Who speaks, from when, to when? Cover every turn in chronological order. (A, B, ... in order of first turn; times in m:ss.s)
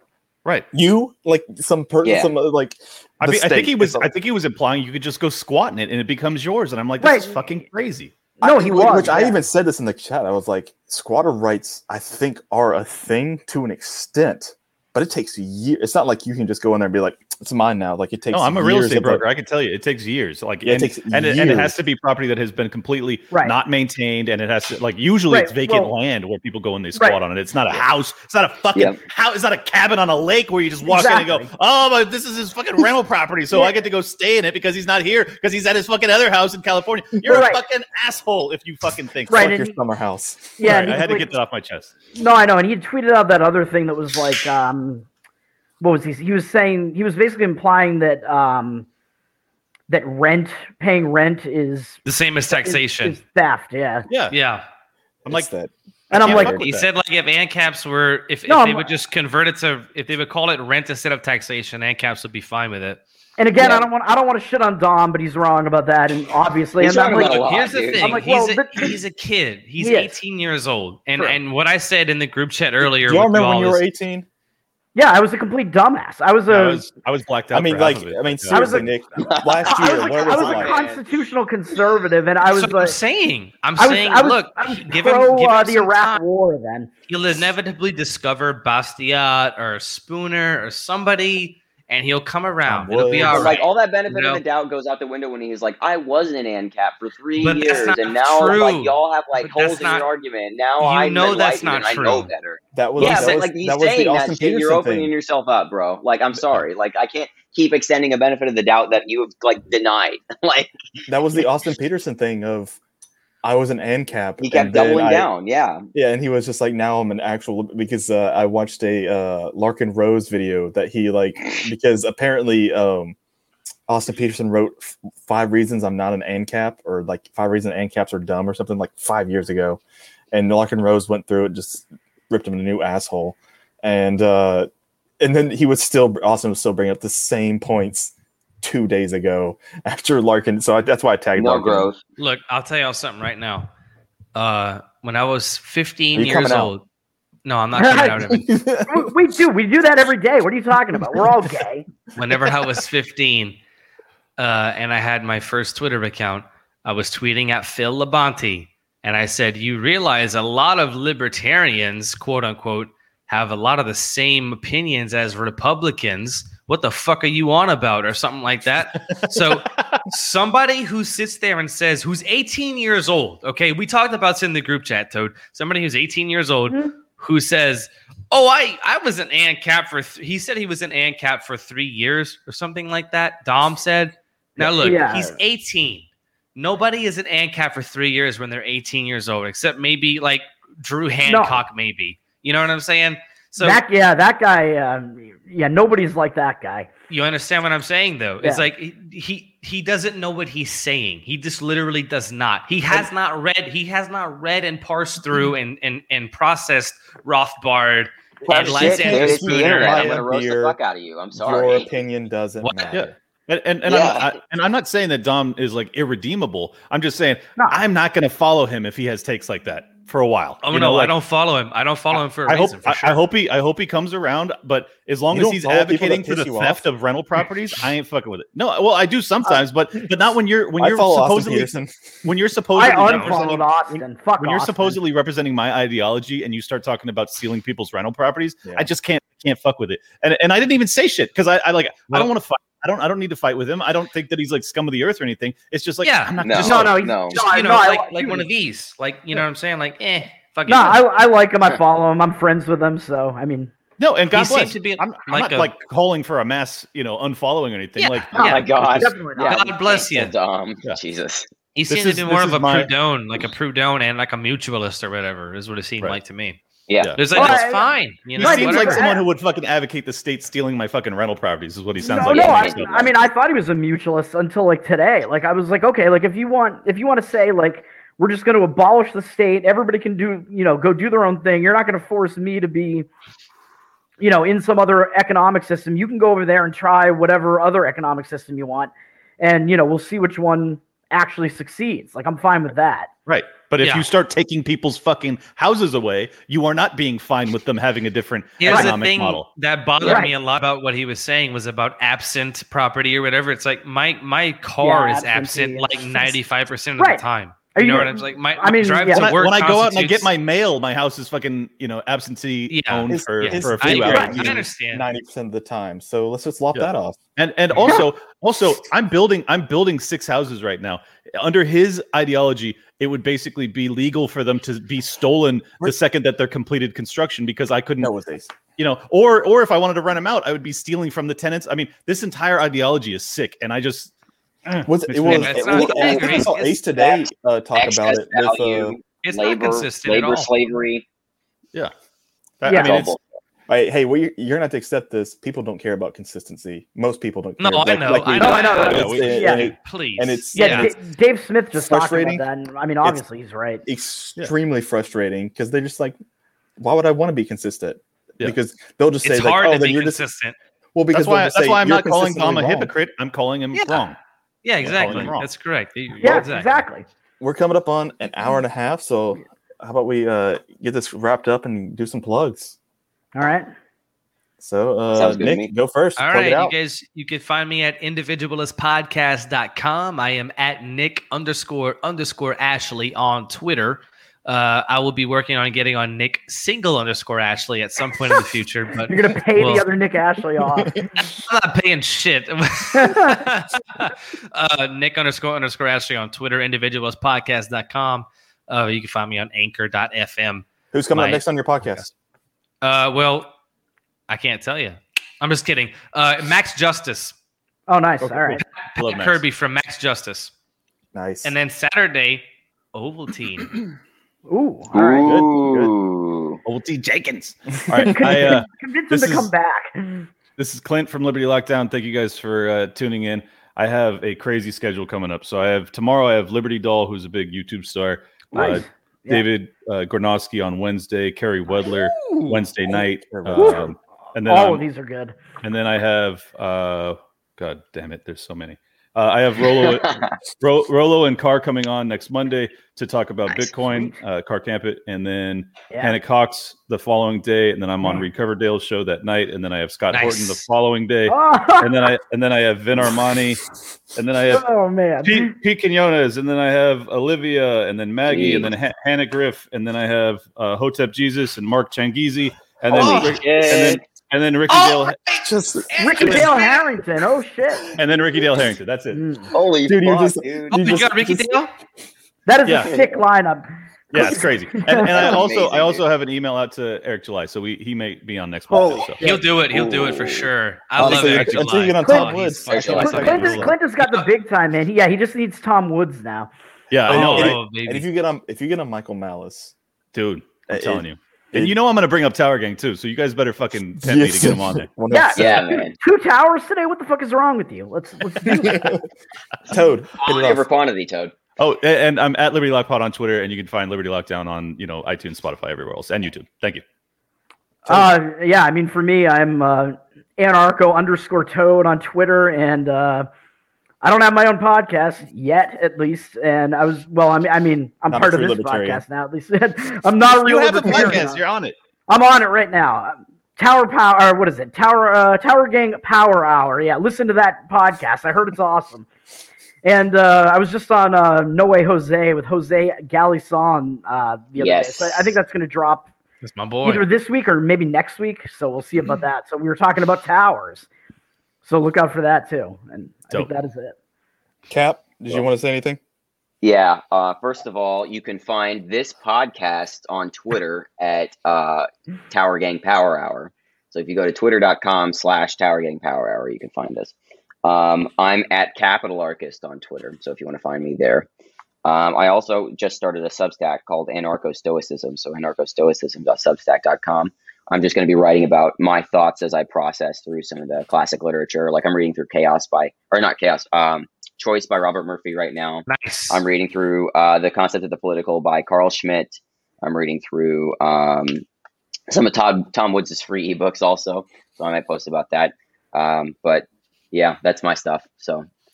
0:00.7-0:04.1 A
0:02.0-0:02.3 B
0:03.2-0:08.2 C
0:07.0-0:07.4 D
0:08.4-0:19.2 A
0:08.4-0:09.4 D
0:18.3-0:39.5 C
0:20.6-0:21.7 A
0:23.3-0:23.6 D
0:25.3-0:25.9 D
0:30.8-0:31.5 D
0:37.2-0:37.6 D
0:39.3-0:39.7 D
0:39.3-0:41.0 A
0:40.6-0:41.3 D
0:40.6-0:41.9 C
0:42.1-0:45.0 D
0:45.8-0:48.8 D
0:49.9-0:52.0 D
0:52.0-0:53.2 E
0:52.5-0:54.1 D
0:54.1-0:54.4 C
0:54.3-0:54.6 E
0:55.3-0:56.6 A
0:56.1-0:56.6 D
0:56.1-0:56.9 C
0:56.5-1:03.0 E
0:58.5-0:58.9 D
1:03.4-1:09.0 D
1:03.6-1:03.9 B
1:06.8-1:08.2 B
1:07.0-1:13.8 E
1:09.8-1:10.2 D
1:12.8-1:14.2 A
1:14.9-1:16.8 D
1:16.5-1:18.8 C
1:17.5-1:20.8 A
1:18.5-1:18.9 D
1:19.2-1:21.0 B
1:19.6-1:23.0 D
1:22.5-1:26.2 E
1:23.8-1:26.9 D
1:27.1-1:34.4 E
1:32.7-1:33.6 A
1:33.2-1:50.7 B
1:37.4-1:40.0 E
1:40.8-1:42.3 E
1:42.7-1:45.1 A
1:43.0-1:43.4 E
1:51.1-1:52.8 A
1:53.4-1:55.3 A
1:54.4-1:55.9 B
1:55.9-2:03.1 A
2:03.9-2:09.8 A
2:10.3-2:14.7 A
2:15.2-2:21.9 A
2:21.4-2:22.0 B
2:22.2-2:23.7 E
2:24.3-2:26.8 E
2:26.1-2:26.7 A
2:27.4-2:28.5 E
2:27.8-2:28.2 D
2:28.2-2:29.1 A
2:28.9-2:31.9 D
2:32.1-2:33.6 E
2:34.4-3:06.0 E
2:49.1-2:50.0 C
3:04.6-3:05.4 D
3:06.6-3:13.8 E
3:11.2-3:11.6 D
3:13.6-3:16.9 D
3:17.1-3:30.2 E
3:18.4-3:18.7 D
3:28.4-3:30.8 A
3:28.5-3:31.9 B
3:31.4-3:33.1 A
3:32.6-3:32.9 E
3:32.9-3:41.1 C
3:33.8-3:34.4 B
3:37.6-3:37.8 D
3:40.6-3:43.2 E
3:42.5-3:51.7 C
3:45.3-3:46.8 A
3:50.8-3:52.1 A
3:52.2-4:07.3 C
3:52.7-3:55.0 D
3:53.0-3:53.4 E
3:58.6-3:58.9 A
4:06.0-4:11.0 E
4:06.4-4:07.4 B
4:06.6-4:08.5 D
4:10.7-4:13.7 D
4:14.0-4:19.1 C
4:14.3-4:15.7 E
4:18.0-4:18.6 E
4:18.3-4:21.5 B
4:18.4-4:19.6 D
4:19.5-4:20.3 E
4:21.7-4:26.6 E
4:21.9-4:22.9 C
4:26.9-4:27.2 B
4:27.0-4:27.6 C
4:27.2-4:29.1 E
4:27.3-4:29.2 D
4:28.3-4:33.1 C
4:32.0-4:43.1 D
4:32.2-4:32.8 B
4:44.2-4:53.1 D
4:53.2-4:59.4 C
4:53.8-4:54.1 E
4:58.6-5:10.3 E
4:58.6-4:58.9 D
5:00.0-5:00.3 D
5:04.8-5:06.4 D
5:07.0-5:09.3 D
5:09.1-5:14.7 C
5:12.7-5:15.1 E
5:13.1-5:17.2 A
5:16.7-5:28.1 C
5:28.0-5:28.5 A
5:28.8-5:34.1 C
5:34.6-5:36.4 C
5:34.8-5:38.9 A
5:35.2-5:36.7 E
5:35.7-5:41.0 B
5:39.2-5:40.5 E
5:42.6-5:43.2 C
5:42.6-5:43.0 D
5:42.7-5:43.2 B
5:43.7-5:50.9 A
5:47.6-5:50.9 E
5:48.3-5:49.7 D
5:48.8-5:49.5 C
5:50.5-5:53.8 D
5:51.8-5:52.4 A
5:53.8-5:56.2 A
5:56.8-6:00.2 A
5:59.2-6:00.5 E
6:00.9-6:02.9 A
6:01.1-6:04.2 C
6:03.7-6:04.0 E
6:04.6-6:06.8 E
6:04.8-6:05.5 C
6:05.0-6:05.3 A
6:06.2-6:07.0 D
6:07.4-6:12.7 A
6:13.3-6:13.7 D
6:14.6-6:16.7 A
6:15.1-6:15.7 B
6:16.2-6:29.9 E
6:29.1-6:31.1 D
6:30.8-6:31.1 A
6:31.2-6:41.4 E
6:32.9-6:33.4 D
6:40.9-6:42.1 A
6:42.8-6:43.5 E
6:44.3-6:47.3 E
6:47.9-6:48.6 D
6:48.2-6:49.4 C
6:48.8-6:50.5 E
6:51.1-6:51.5 A
6:51.4-6:53.8 E
6:54.5-6:55.4 D
6:54.9-6:56.6 B
6:55.2-6:55.6 A
6:55.3-6:55.9 C
6:56.6-6:59.5 C
6:58.0-7:00.3 D
7:00.6-7:14.8 C
7:08.5-7:09.4 D
7:12.2-7:12.5 D
7:12.8-7:13.9 A
7:13.5-7:13.9 D
7:14.5-7:15.4 D
7:15.6-7:33.6 C
7:19.8-7:20.3 B
7:25.9-7:26.2 D
7:30.1-7:30.6 E
7:31.3-7:32.1 D
7:34.1-7:34.6 C
7:34.5-7:35.5 D
7:35.2-7:45.2 C
7:38.3-7:38.7 B
7:42.9-7:44.0 B
7:43.0-7:43.3 E
7:44.7-7:46.8 E
7:45.4-7:46.4 A
7:46.0-7:47.9 D
7:46.2-7:46.5 C
7:47.9-7:49.2 C
7:49.1-7:49.5 D
7:49.5-7:51.0 B
7:49.9-7:51.6 A
7:50.7-7:51.7 E
7:52.4-7:55.4 D
7:52.6-7:53.0 C
7:54.1-7:59.2 C
7:55.2-7:56.0 B
7:58.7-7:59.2 A
7:59.2-8:04.3 E
7:59.7-8:00.5 B
8:01.0-8:01.9 C
8:01.0-8:03.7 A
8:02.0-8:02.3 D
8:02.7-8:03.6 B
8:02.9-8:06.5 D
8:06.9-8:07.6 C
8:07.0-8:09.7 A
8:07.1-8:08.0 E
8:10.1-8:14.9 C
8:10.7-8:11.7 A
8:14.0-8:15.8 A
8:15.1-8:19.0 D
8:15.4-8:15.9 B
8:18.5-8:19.0 A
8:19.7-8:20.6 A
8:20.2-8:21.3 B
8:21.6-8:26.8 C
8:27.8-8:33.3 D
8:34.0-8:41.4 D
8:38.1-8:39.0 A
8:40.4-8:41.8 C
8:42.1-8:49.1 D
8:49.8-8:56.1 D
8:54.6-8:55.3 B
8:56.4-8:57.0 E
8:56.8-9:00.8 D
9:01.6-9:03.9 D
9:04.7-9:06.0 A
9:06.6-9:21.2 B
9:21.8-9:41.4 B
9:35.9-9:36.4 E
9:42.1-9:48.5 B